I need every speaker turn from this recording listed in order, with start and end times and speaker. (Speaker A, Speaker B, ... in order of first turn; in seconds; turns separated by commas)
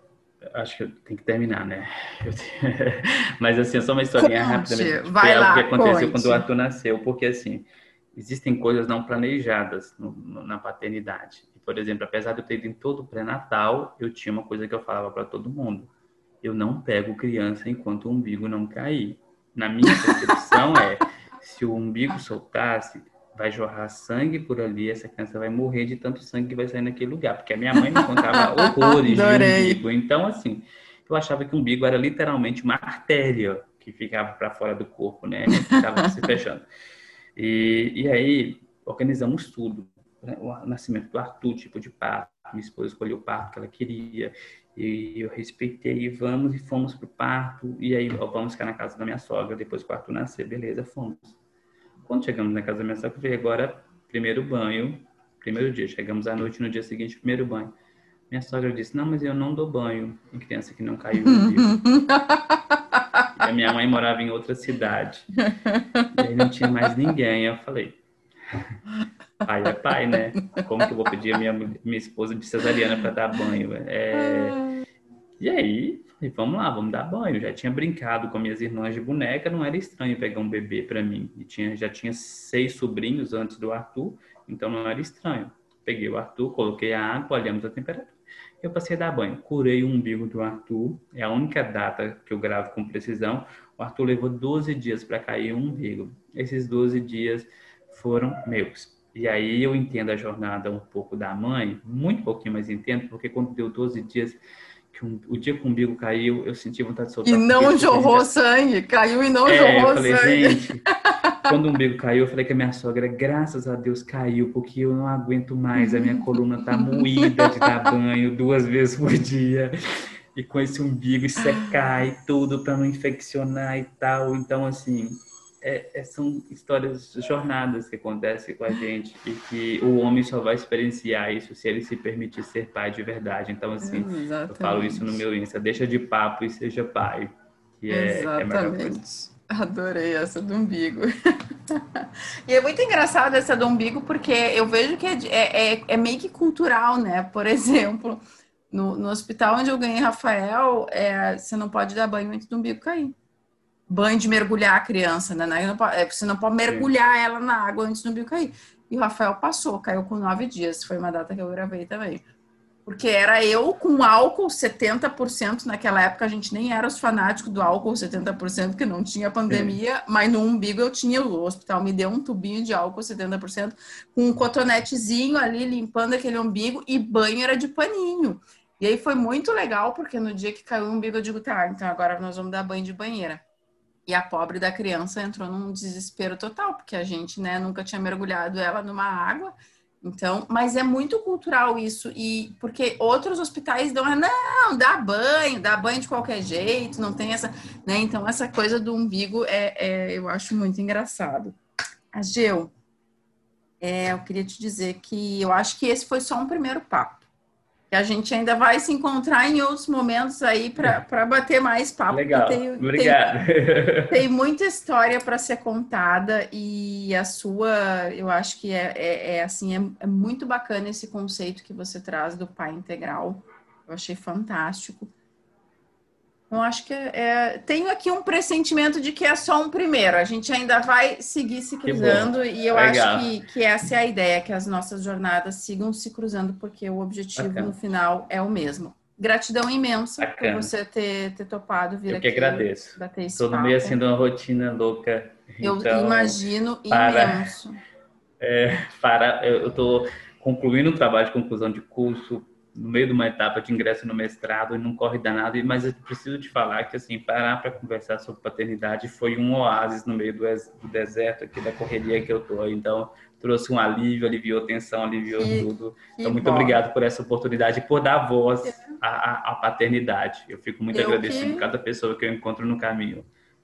Speaker A: 0.5-15.9, Speaker B: 4.2-6.4, Speaker A: 16.4-36.6, Speaker B: 19.9-20.5, Speaker B: 27.9-29.8, Speaker B: 35.6-36.1, Speaker A: 37.4-51.4, Speaker A: 52.0-57.7, Speaker A: 58.3-61.8, Speaker B: 61.2-63.2, Speaker A: 63.4-65.3, Speaker B: 65.5-66.4, Speaker A: 66.1-68.0, Speaker A: 69.4-74.6, Speaker B: 74.2-74.7, Speaker A: 75.4-104.4, Speaker A: 104.9-108.3, Speaker B: 107.2-111.5, Speaker A: 109.4-110.8, Speaker A: 111.4-139.0, Speaker B: 115.8-117.7, Speaker B: 133.8-135.2, Speaker B: 137.9-141.1, Speaker B: 141.7-153.1, Speaker B: 153.9-162.2, Speaker B: 162.8-183.4, Speaker A: 169.5-169.8, Speaker B: 184.1-201.6, Speaker B: 202.1-202.7, Speaker B: 203.8-207.2, Speaker B: 207.9-213.2, Speaker A: 212.1-214.2, Speaker B: 214.1-225.1, Speaker B: 226.5-244.0, Speaker A: 231.8-233.3, Speaker A: 237.3-237.7, Speaker A: 240.2-240.7, Speaker A: 242.1-247.5, Speaker B: 245.6-247.8, Speaker A: 248.4-273.3, Speaker B: 265.3-266.8, Speaker B: 268.6-268.9, Speaker B: 270.9-271.7